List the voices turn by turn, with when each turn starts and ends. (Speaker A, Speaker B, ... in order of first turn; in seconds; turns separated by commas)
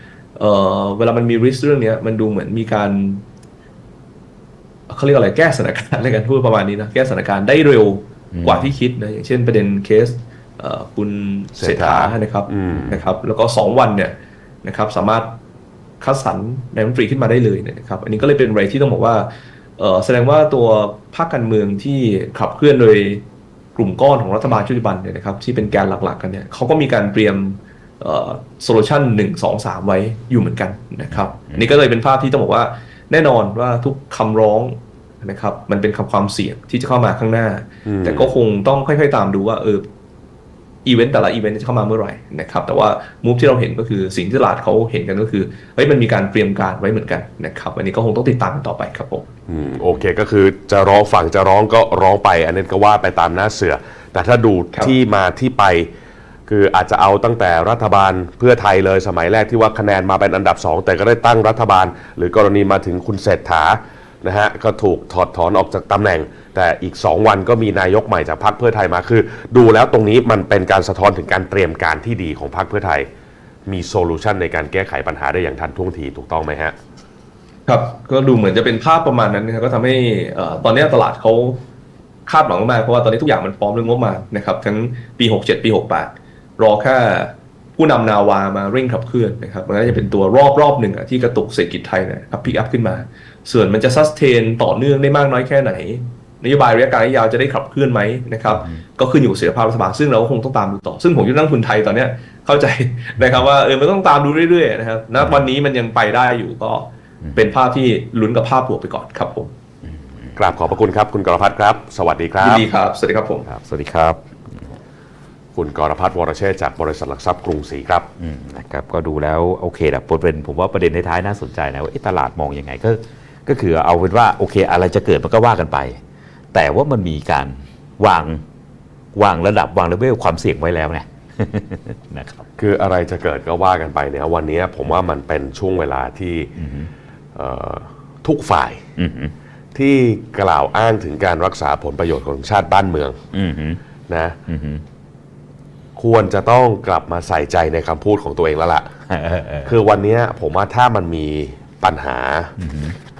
Speaker A: 0.3-3.2, Speaker A: 4.9-15.4, Speaker B: 8.3-8.7, Speaker C: 11.6-12.9, Speaker A: 16.0-39.9, Speaker B: 31.1-31.7, Speaker C: 37.8-38.3, Speaker A: 40.8-49.3, Speaker C: 49.5-55.9, Speaker C: 56.5-73.1, Speaker C: 73.7-76.8, Speaker A: 77.7-81.6, Speaker A: 82.2-109.5, Speaker B: 98.5-98.8, Speaker B: 105.2-105.5, Speaker B: 107.2-107.5, Speaker B: 109.9-110.8, Speaker C: 110.3-112.7, Speaker A: 112.4-113.5, Speaker B: 113.5-114.7, Speaker C: 115.5-118.1, Speaker B: 118.2-126.0, Speaker B: 126.5-128.4, Speaker B: 129.1-132.4, Speaker C: 132.6-136.5, Speaker B: 136.6-136.9, Speaker C: 137.3-138.8, Speaker B: 139.0-139.3, Speaker C: 139.7-143.2, Speaker B: 143.3-143.8, Speaker C: 144.1-144.4, Speaker B: 144.5-144.8, Speaker C: 145.9-148.9, Speaker B: 149.1-149.7, Speaker C: 149.6-152.5, Speaker B: 152.6-152.9